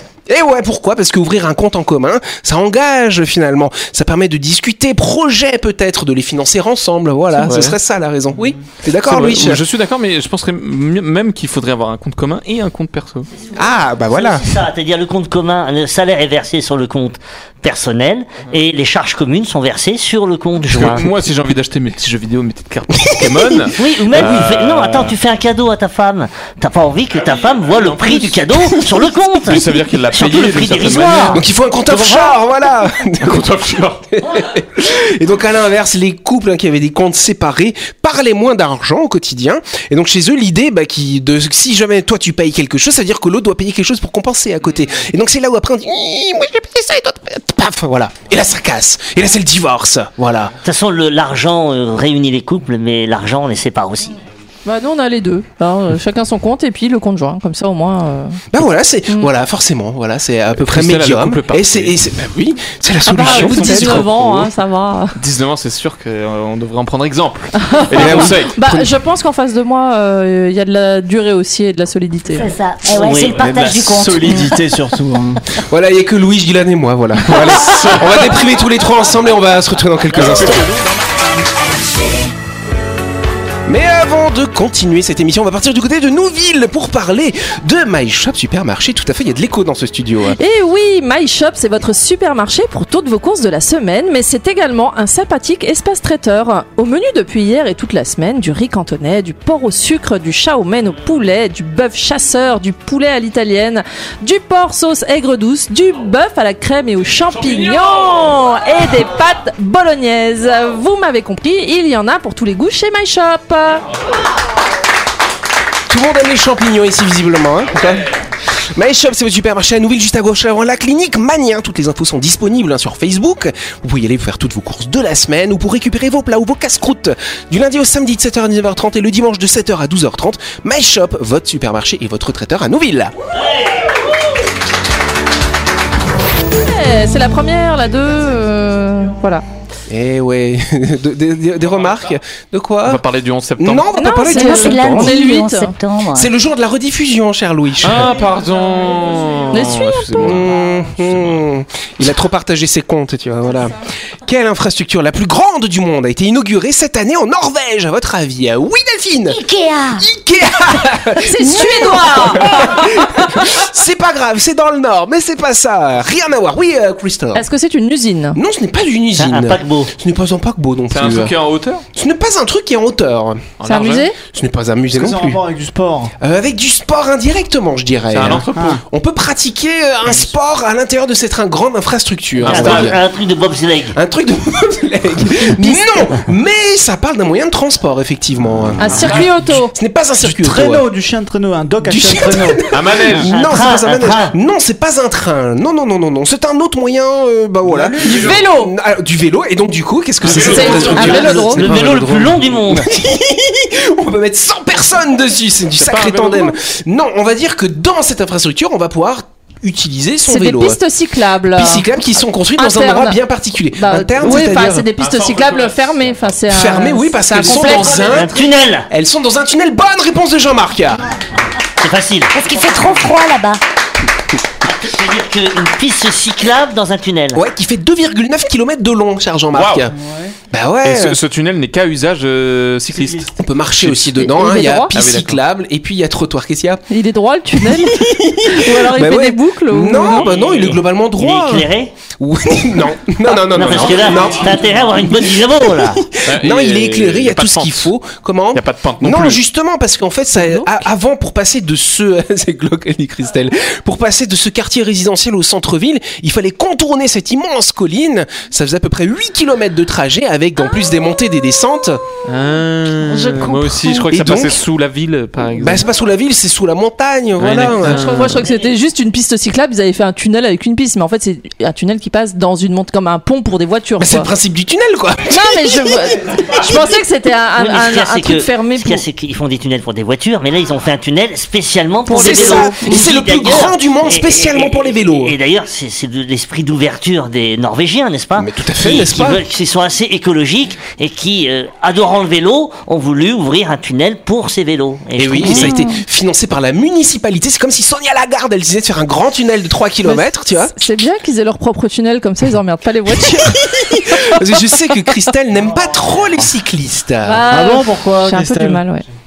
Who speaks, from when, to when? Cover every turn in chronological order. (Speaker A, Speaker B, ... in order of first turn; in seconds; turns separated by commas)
Speaker A: 0.3-9.6, Speaker B: 7.3-7.8, Speaker B: 9.0-13.3, Speaker A: 13.6-14.6, Speaker C: 14.1-21.1, Speaker B: 20.7-25.2, Speaker A: 23.0-23.7, Speaker C: 23.8-32.4, Speaker B: 27.2-28.4, Speaker B: 29.4-31.4, Speaker A: 31.3-33.5, Speaker B: 33.2-34.0, Speaker A: 34.1-50.6, Speaker C: 50.6-54.1, Speaker D: 54.6-58.4, Speaker A: 58.5-64.1, Speaker B: 60.5-62.0, Speaker D: 63.0-65.2, Speaker B: 63.1-64.5, Speaker B: 65.2-68.9, Speaker D: 67.6-72.5, Speaker A: 68.0-68.4, Speaker E: 72.3-74.7, Speaker C: 72.9-73.8, Speaker B: 73.3-73.6, Speaker F: 73.4-75.4, Speaker A: 75.6-80.7, Speaker B: 77.5-78.3, Speaker A: 83.7-90.4, Speaker D: 90.3-113.8, Speaker B: 107.4-108.2, Speaker A: 115.9-118.0, Speaker A: 118.7-133.1, Speaker D: 136.5-139.4, Speaker A: 139.9-143.0, Speaker B: 142.8-143.9, Speaker A: 143.6-145.2, Speaker D: 143.9-145.8, Speaker E: 144.4-146.3, Speaker A: 146.1-148.3, Speaker B: 147.8-150.6, Speaker D: 149.5-150.4, Speaker A: 150.2-159.4, Speaker B: 151.1-151.4, Speaker E: 159.3-160.0, Speaker A: 159.9-167.4, Speaker D: 161.2-162.6, Speaker D: 167.3-168.4, Speaker A: 168.3-171.4, Speaker C: 169.2-169.9, Speaker B: 170.9-171.8, Speaker A: 171.9-173.5, Speaker B: 173.6-174.1, Speaker D: 173.6-174.2, Speaker A: 174.2-175.4, Speaker F: 174.9-176.1, Speaker A: 176.2-183.0, Speaker B: 178.1-178.8, Speaker F: 178.5-178.8, Speaker B: 182.4-183.0, Speaker C: 182.5-184.0, Speaker A: 183.9-190.8, Speaker D: 188.8-189.8, Speaker F: 190.2-192.6, Speaker A: 191.8-210.8, Speaker B: 192.7-193.4, Speaker C: 193.1-194.3, Speaker F: 197.6-198.1, Speaker D: 198.1-198.7, Speaker B: 200.2-201.4, Speaker D: 200.3-201.7, Speaker C: 201.4-202.8, Speaker B: 205.7-206.5, Speaker D: 210.3-211.9, Speaker A: 211.5-214.9, Speaker D: 212.6-213.2, Speaker D: 213.7-218.2, Speaker B: 215.0-216.4, Speaker A: 216.5-221.0, Speaker C: 217.5-218.9, Speaker C: 221.8-222.3, Speaker E: 222.3-223.6, Speaker C: 224.6-227.4, Speaker A: 227.3-229.9, Speaker B: 229.5-229.9, Speaker F: 230.0-230.3, Speaker A: 230.5-231.2, Speaker B: 230.8-234.3, Speaker F: 232.9-233.3, Speaker A: 233.4-236.8, Speaker D: 234.2-235.0, Speaker B: 234.9-235.4, Speaker D: 236.9-240.3, Speaker A: 238.0-262.0, Speaker B: 240.2-240.8, Speaker C: 241.1-241.9, Speaker C: 243.5-246.1, Speaker B: 243.5-244.5, Speaker B: 246.2-247.9, Speaker B: 248.5-249.4, Speaker D: 250.4-250.7, Speaker B: 262.3-265.9, Speaker A: 264.1-264.6, Speaker A: 265.6-268.1, Speaker B: 267.4-268.4, Speaker D: 267.8-274.3, Speaker A: 274.0-275.7, Speaker D: 275.3-279.0, Speaker C: 277.6-295.8, Speaker D: 282.1-283.0, Speaker A: 282.1-285.4, Speaker A: 288.4-289.5, Speaker A: 295.2-300.7, Speaker D: 295.4-295.9, Speaker D: 300.0-304.1, Speaker A: 304.1-307.5, Speaker D: 307.2-309.1, Speaker F: 307.5-308.8